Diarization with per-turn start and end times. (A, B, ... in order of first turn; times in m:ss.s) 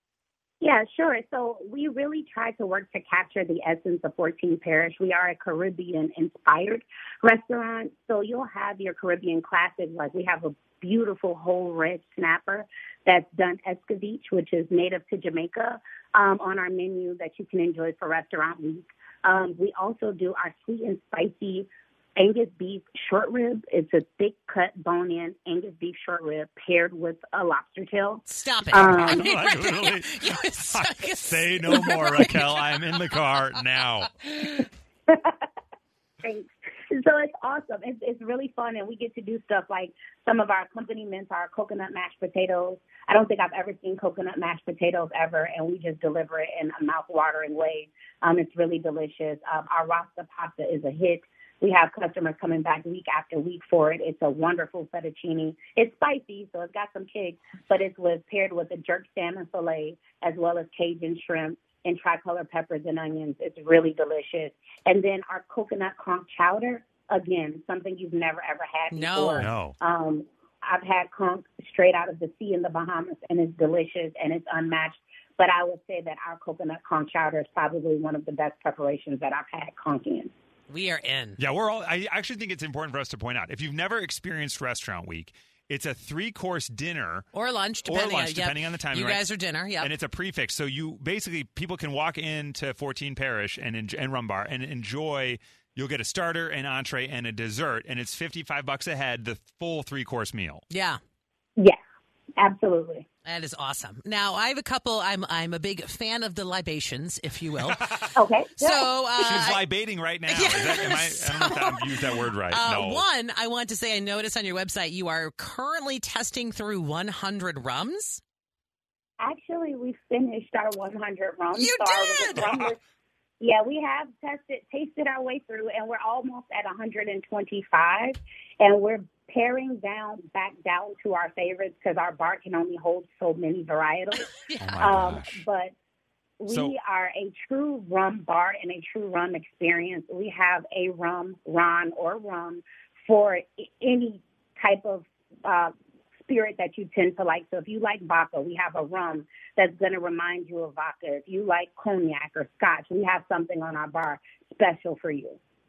0:00.6-0:29.3 A
0:28.3-0:33.0 B
0:28.8-0:34.1 C
0:34.2-0:34.7 B
0:35.1-0:35.4 A
0:36.2-1:20.3 A
1:08.9-1:09.5 B
1:09.4-1:09.8 C
1:20.7-1:21.4 B
1:21.4-1:27.2 C
1:27.3-1:29.9 B
1:27.8-1:29.2 C
1:29.8-1:40.6 C
1:40.7-1:41.0 B
1:42.4-1:43.1 A
1:43.2-1:47.9 B
1:48.1-1:48.9 A
1:48.6-1:49.6 B
1:49.2-1:53.0 C
1:50.3-1:58.2 B
1:59.2-2:02.8 A
2:01.5-2:02.7 B
2:03.4-2:14.3 A
2:14.2-2:14.8 B
2:14.6-2:15.4 C
2:14.8-2:15.7 A
2:16.4-2:25.7 A
2:16.5-2:16.7 C
2:26.2-2:35.4 A